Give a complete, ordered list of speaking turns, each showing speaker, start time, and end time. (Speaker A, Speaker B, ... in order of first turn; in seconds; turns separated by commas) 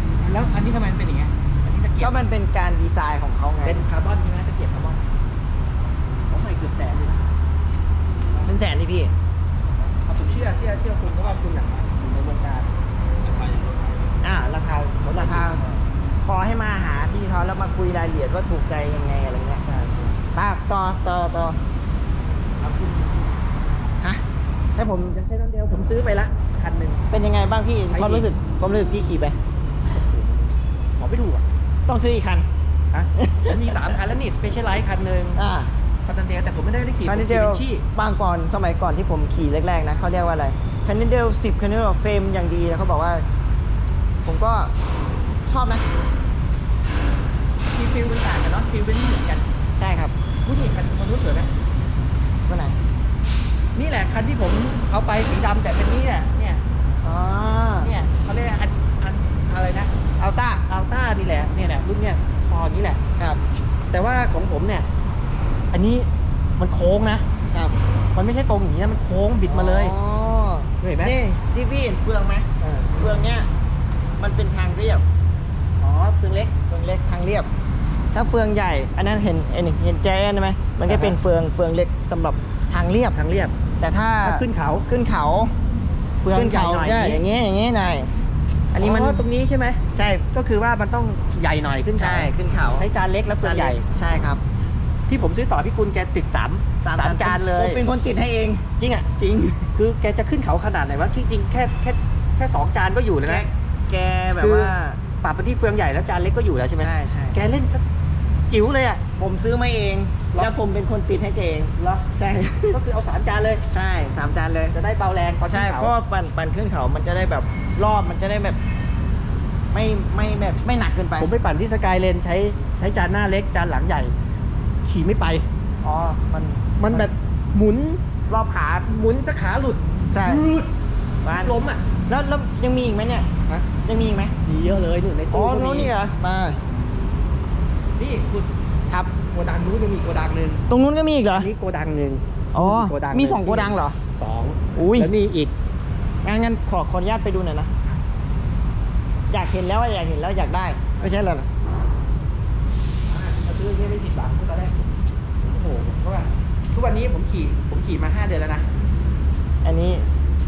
Speaker A: 0.2-2.2, Speaker B: 2.0-3.8, Speaker A: 3.6-5.0, Speaker A: 6.2-7.3, Speaker B: 8.4-9.1, Speaker C: 9.7-11.8, Speaker A: 10.0-12.7, Speaker C: 13.2-14.1, Speaker B: 14.2-15.6, Speaker A: 15.0-15.8, Speaker B: 16.2-19.6, Speaker A: 19.6-20.2, Speaker B: 20.3-21.6, Speaker A: 22.6-23.5, Speaker B: 24.8-25.2, Speaker A: 25.1-27.0, Speaker B: 27.1-29.4, Speaker A: 27.9-28.3, Speaker A: 29.9-31.5, Speaker B: 31.9-32.5, Speaker A: 32.9-35.4, Speaker B: 33.2-33.9, Speaker B: 35.4-35.7, Speaker A: 36.0-37.8, Speaker B: 37.0-43.2, Speaker B: 44.2-44.7, Speaker B: 45.5-45.8, Speaker A: 47.7-49.4, Speaker B: 49.8-50.1, Speaker A: 50.4-51.5, Speaker B: 52.5-52.8, Speaker A: 53.7-56.6, Speaker B: 57.0-57.9, Speaker A: 57.8-59.9, Speaker B: 60.2-60.6, Speaker A: 60.7-63.0, Speaker A: 63.9-64.9, Speaker A: 65.7-67.2, Speaker A: 68.1-70.0, Speaker B: 69.5-73.5, Speaker A: 70.8-71.2, Speaker A: 72.6-73.1, Speaker B: 74.2-75.0, Speaker A: 75.8-76.5, Speaker B: 76.7-77.5, Speaker B: 78.1-83.2, Speaker A: 80.8-81.2, Speaker A: 83.1-83.5, Speaker B: 83.8-85.5, Speaker A: 84.2-84.9, Speaker A: 86.2-87.2, Speaker B: 86.3-88.1, Speaker B: 88.7-89.2, Speaker A: 88.8-89.8, Speaker B: 89.9-90.2, Speaker A: 90.3-93.8, Speaker B: 92.0-92.8, Speaker B: 93.4-94.4, Speaker A: 95.1-97.8, Speaker B: 96.8-98.6, Speaker A: 98.8-99.1, Speaker B: 99.2-99.7, Speaker A: 99.7-103.4, Speaker B: 103.2-105.0, Speaker A: 104.4-107.8, Speaker B: 106.8-107.4, Speaker A: 108.5-109.0, Speaker B: 109.2-112.8, Speaker A: 111.8-112.1, Speaker A: 112.7-113.6, Speaker B: 113.7-114.7, Speaker A: 114.7-115.9, Speaker B: 115.5-118.6, Speaker B: 119.7-121.3, Speaker A: 121.2-124.1, Speaker A: 124.8-125.5, Speaker B: 125.8-127.1, Speaker A: 126.8-128.0, Speaker B: 128.3-128.9, Speaker A: 128.8-130.7, Speaker B: 130.1-130.4, Speaker B: 131.2-131.5, Speaker A: 131.3-131.8, Speaker B: 132.1-134.3, Speaker A: 134.4-135.9, Speaker B: 135.3-136.6, Speaker A: 138.0-138.5, Speaker A: 139.1-140.6, Speaker B: 140.7-141.5, Speaker A: 141.3-145.5, Speaker B: 142.5-144.0, Speaker B: 144.8-145.1, Speaker B: 146.2-147.7, Speaker B: 149.3-151.5, Speaker A: 153.1-158.7, Speaker B: 159.6-160.3